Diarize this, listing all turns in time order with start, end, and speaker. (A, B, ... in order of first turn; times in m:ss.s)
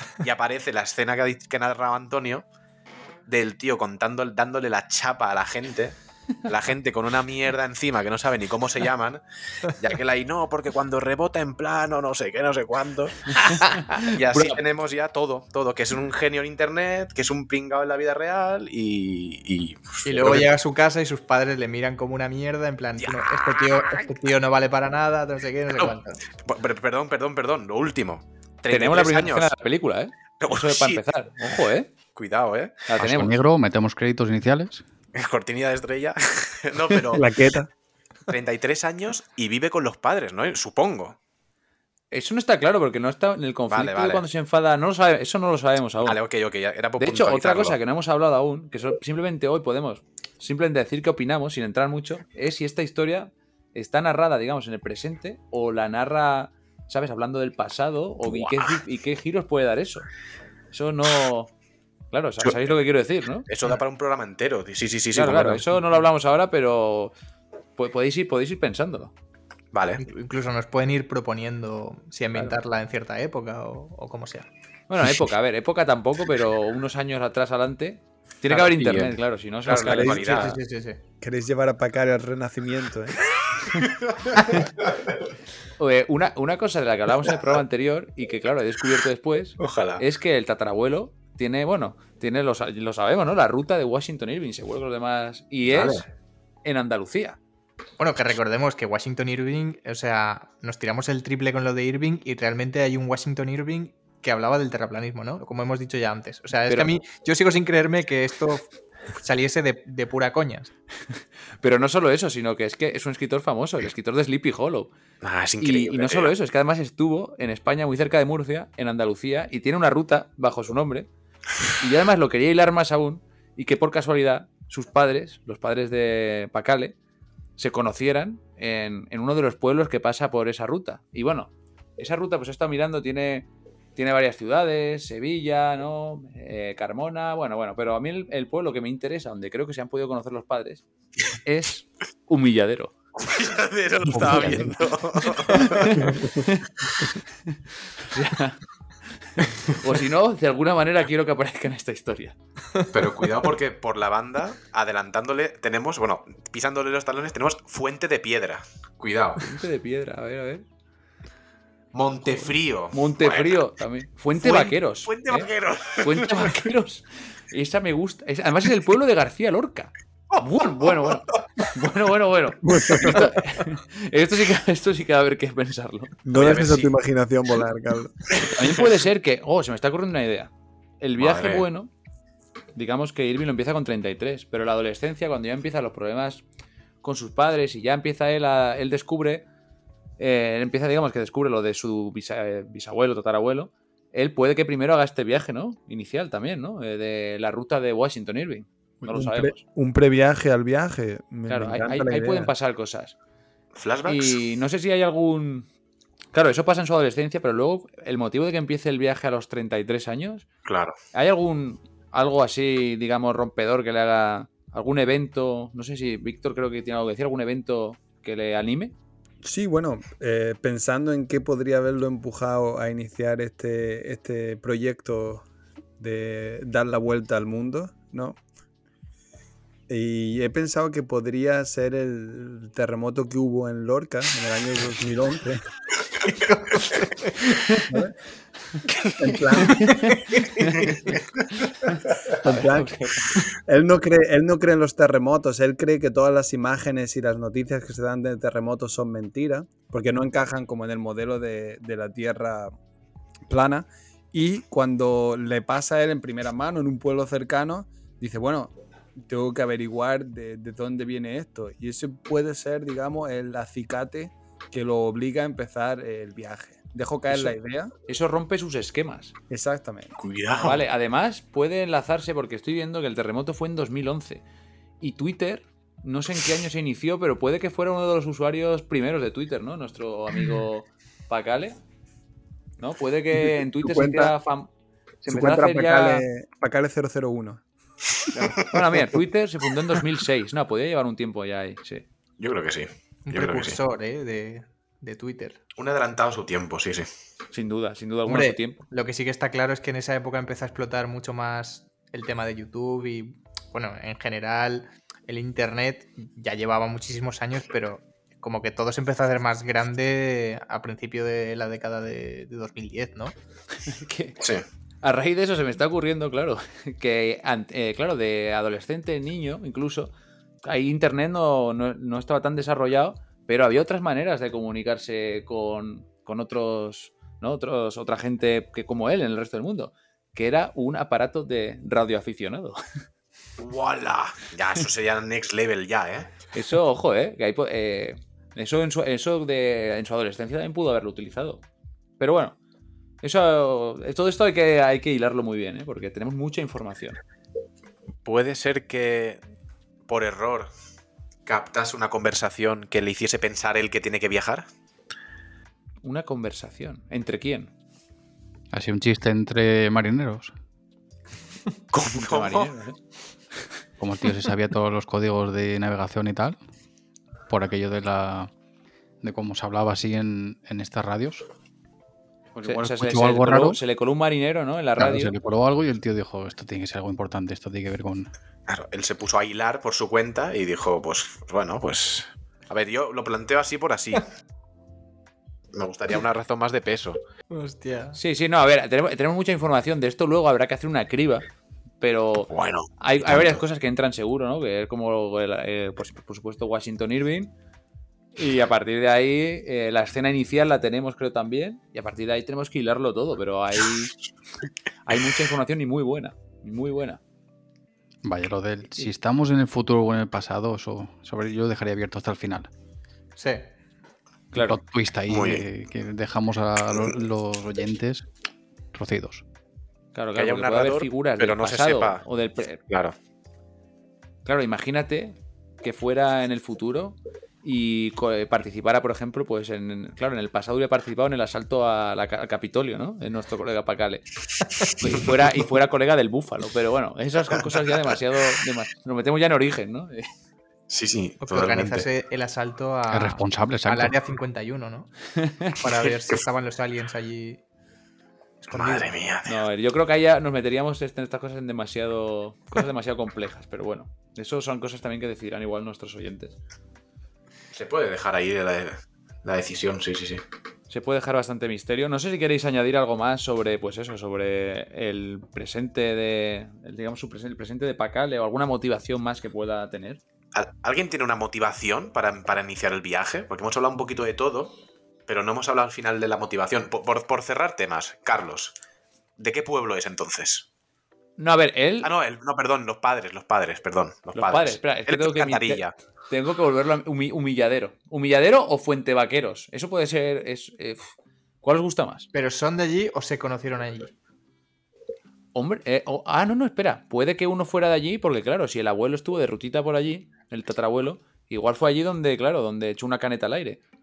0:00.2-0:02.5 A
0:03.3-0:20.5 A
0:13.5-0:14.6 B
0:20.0-0:26.2 C
0:23.0-0:24.0 A
0:25.8-0:29.5 A
0:28.7-0:31.9 B
0:30.4-0:31.0 A
0:32.1-0:32.9 A
0:32.9-0:33.3 B
0:33.0-0:34.8 D
0:35.1-0:37.3 A
0:37.0-0:37.7 E
0:38.3-0:41.2 A
0:42.1-0:46.2 B
0:43.7-0:44.2 A
0:46.0-0:47.8 A
0:47.0-1:00.1 B
0:58.4-0:58.6 A
1:00.7-1:01.5 B
1:02.1-1:03.5 B
1:03.5-1:05.8 A
1:05.1-1:07.1 B
1:07.8-1:09.1 B
1:09.7-1:10.0 A
1:10.0-1:14.5 C
1:14.9-1:20.6 B
1:18.5-1:20.6 A
1:19.7-1:20.2 E
1:20.1-1:21.0 C
1:21.2-1:23.2 E
1:23.8-1:24.3 A
1:25.8-1:36.0 B
1:29.6-1:30.0 A
1:35.7-1:36.0 A
1:36.6-1:37.4 B
1:38.0-1:50.7 C
1:46.7-1:46.9 B
1:51.6-1:54.9 B
1:55.2-1:56.3 A
1:55.6-2:01.1 B
2:01.8-2:07.0 B
2:07.6-2:20.8 B
2:21.4-2:23.0 B
2:23.2-2:26.1 A
2:24.1-2:24.8 D
2:25.5-2:26.7 B
2:27.5-2:28.6 B
2:29.2-2:32.4 B
2:32.9-2:39.5 A
2:39.4-2:40.6 B
2:41.9-2:43.6 A
2:42.9-2:45.5 B
2:44.4-2:46.6 A
2:46.0-2:56.9 B
2:52.6-2:53.3 E
2:56.2-2:58.3 E
2:56.3-2:56.9 A
2:58.4-3:01.9 B
3:01.2-3:01.6 A
3:02.8-3:06.4 B
3:07.0-3:09.4 B
3:10.2-3:19.6 B
3:19.0-3:22.5 E
3:21.5-3:23.2 B
3:23.8-3:24.4 A
3:24.1-3:25.7 B
3:26.3-3:30.5 B
3:30.6-3:31.0 A
3:31.1-3:38.9 B
3:39.4-3:45.5 E
3:46.0-3:48.4 E
3:49.9-3:55.6 E
3:57.4-3:57.9 B
3:57.9-3:58.1 E
3:59.2-4:00.2 E
3:59.6-4:01.1 B
4:01.8-4:03.5 B
4:02.4-4:12.7 E
4:13.5-4:27.9 E
4:27.3-4:29.4 B
4:29.5-4:30.1 E
4:30.2-4:30.8 A
4:30.5-4:34.4 B
4:35.0-4:41.8 B
4:42.8-4:44.7 B
4:43.3-4:44.4 E
4:45.2-4:46.2 B
4:45.2-4:47.6 E
4:48.3-4:52.1 B
4:52.4-4:53.8 A
4:53.3-4:55.6 C
4:55.8-4:57.1 A
4:57.5-4:58.8 B
4:58.2-5:13.3 C
5:13.8-5:14.4 B
5:15.0-5:20.1 B
5:20.6-5:32.8 B
5:33.6-5:36.5 A
5:36.5-5:41.6 B
5:42.2-5:42.6 B
5:43.2-5:47.2 B
5:48.2-5:49.4 A
5:50.1-5:50.7 A
5:51.5-5:54.6 A
5:56.0-5:57.7 B
5:58.7-6:00.5 D
6:01.9-6:02.7 A
6:02.1-6:03.0 B
6:04.0-6:06.6 D
6:07.5-6:08.5 D
6:09.2-6:11.4 D
6:12.5-6:13.8 D
6:12.6-6:15.3 B
6:15.0-6:18.3 D
6:18.7-6:24.3 A
6:25.7-6:27.2 A
6:27.5-6:28.2 C
6:28.1-6:31.4 B
6:32.0-6:37.5 B
6:32.5-6:33.6 A
6:38.4-6:44.1 B
6:45.1-6:47.2 B
6:48.2-6:52.7 D
6:53.4-6:53.7 C
6:54.5-6:54.8 B
6:54.5-6:58.3 D
6:55.3-6:55.6 A
6:58.9-6:59.4 D
7:00.1-7:02.8 B
7:00.4-7:02.2 A
7:02.9-7:03.1 A
7:04.4-7:14.3 B
7:14.9-7:20.3 B
7:20.9-7:22.1 A
7:21.4-7:25.1 C
7:23.1-7:24.2 D
7:25.4-7:25.8 B
7:25.7-7:27.6 C
7:28.6-7:29.1 C
7:28.7-7:29.6 A
7:29.5-7:36.6 B
7:37.7-7:40.4 A
7:40.9-7:50.2 B
7:50.5-7:58.7 A
7:59.4-8:00.7 A
8:01.4-8:02.1 B
8:02.0-8:05.9 A
8:04.3-8:12.3 B
8:12.3-8:14.1 C
8:15.5-8:23.8 B